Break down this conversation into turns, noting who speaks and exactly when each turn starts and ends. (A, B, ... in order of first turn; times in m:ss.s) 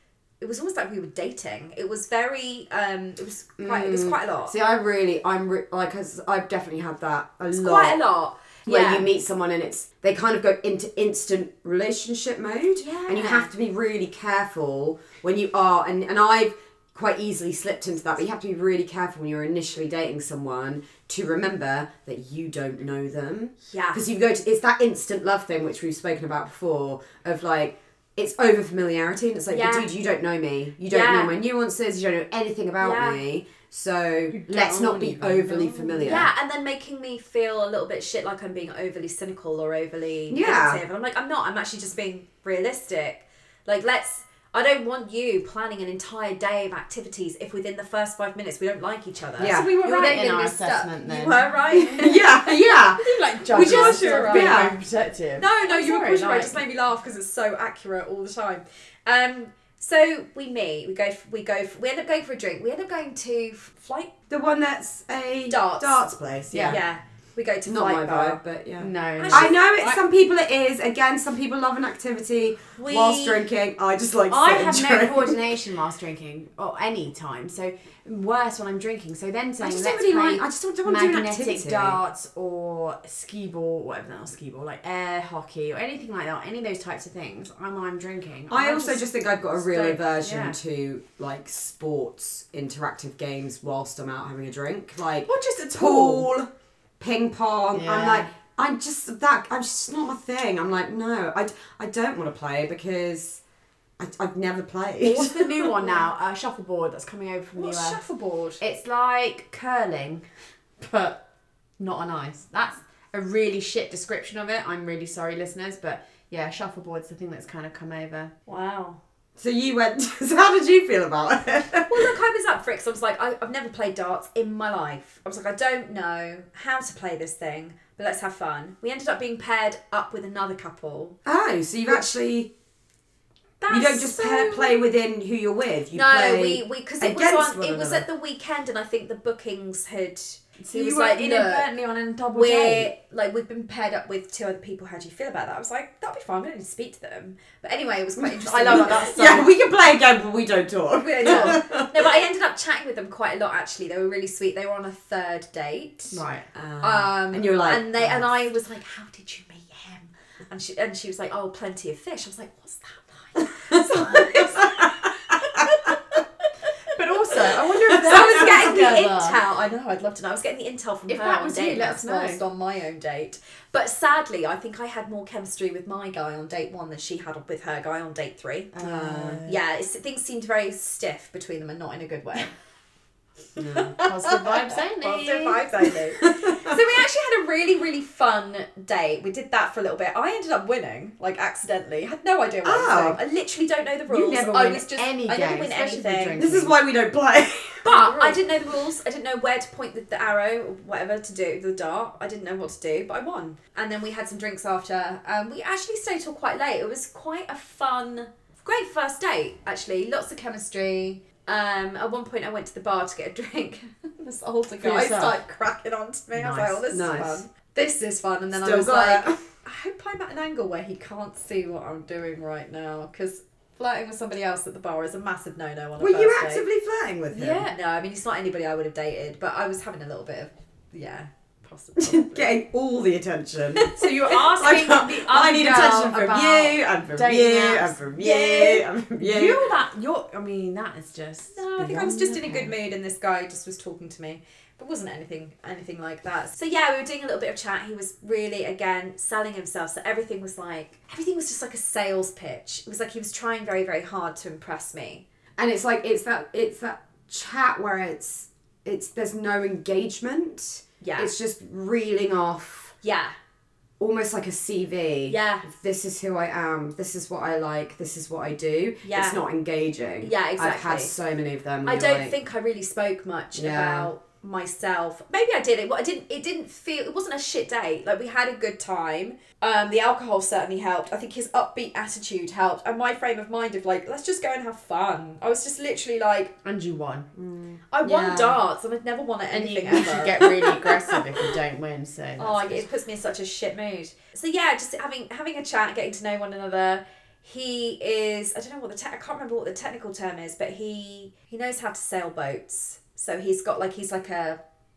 0:00.4-0:04.5 A
0:03.6-0:08.0 B
0:07.5-0:09.1 A
0:08.7-0:36.3 B
0:12.8-0:13.5 A
0:23.7-0:24.0 A
0:29.5-0:29.9 A
0:30.9-0:31.4 A
0:32.8-0:33.2 A
0:34.3-0:36.3 C
0:36.0-0:54.7 A
0:40.3-0:40.8 B
0:49.4-0:49.7 B
0:49.4-0:52.1 C
0:51.9-0:54.8 B
0:53.0-0:56.6 C
0:55.4-1:04.1 A
1:04.3-1:06.8 B
1:05.5-1:06.0 A
1:06.5-1:06.8 C
1:06.7-1:08.4 A
1:07.7-1:15.4 B
1:08.8-1:09.6 C
1:09.2-1:10.0 A
1:12.8-1:13.5 A
1:14.3-1:30.6 C
1:19.6-1:22.0 B
1:28.5-1:43.4 B
1:35.2-1:36.3 C
1:37.7-1:38.3 C
1:44.0-1:45.7 B
1:45.0-1:48.0 C
1:45.8-1:46.1 A
1:47.6-1:48.6 A
1:48.6-1:50.2 C
1:50.8-1:51.2 C
1:51.8-1:58.3 C
1:58.5-1:59.0 A
1:59.4-2:02.1 B
2:01.9-2:11.2 A
2:11.2-2:12.5 B
2:13.6-2:14.8 A
2:13.7-2:18.0 B
2:15.9-2:21.7 A
2:20.6-2:22.9 C
2:22.3-2:29.3 A
2:28.4-2:29.5 C
2:28.6-2:32.1 B
2:31.0-2:36.2 A
2:31.2-2:31.6 C
2:36.1-2:36.5 C
2:36.5-2:38.3 B
2:36.8-2:46.4 A
2:43.7-2:44.9 B
2:46.9-2:49.4 C
2:47.3-2:58.7 A
2:47.9-2:48.6 B
2:51.1-2:52.4 C
2:58.8-2:59.6 C
2:58.8-2:59.4 B
2:59.4-3:02.5 A
3:03.6-3:04.0 B
3:03.6-3:16.4 A
3:04.0-3:05.7 C
3:06.2-3:06.8 B
3:12.6-3:13.2 B
3:14.1-3:16.8 C
3:16.4-3:17.9 B
3:17.8-3:46.6 A
3:17.9-3:18.4 C
3:34.8-3:35.4 C
3:36.3-3:36.8 C
3:36.9-3:37.4 B
3:38.5-3:39.4 B
3:46.0-3:47.7 B
3:47.3-3:47.7 C
3:47.6-3:52.6 A
3:52.0-3:59.7 B
3:53.8-3:56.7 A
3:54.0-3:56.4 C
3:57.1-3:58.0 C
3:58.2-3:58.8 A
3:59.2-4:02.8 C
4:01.5-4:15.2 A
4:15.6-4:23.0 B
4:21.0-4:21.3 A
4:23.0-4:23.4 A
4:24.0-4:32.3 B
4:25.3-4:25.7 A
4:29.0-4:29.4 A
4:30.2-4:31.1 A
4:31.8-4:46.5 A
4:33.5-4:34.1 B
4:46.6-4:47.3 C
4:47.4-4:48.6 B
4:47.9-4:51.5 A
4:49.5-4:52.8 C
4:52.4-5:04.6 A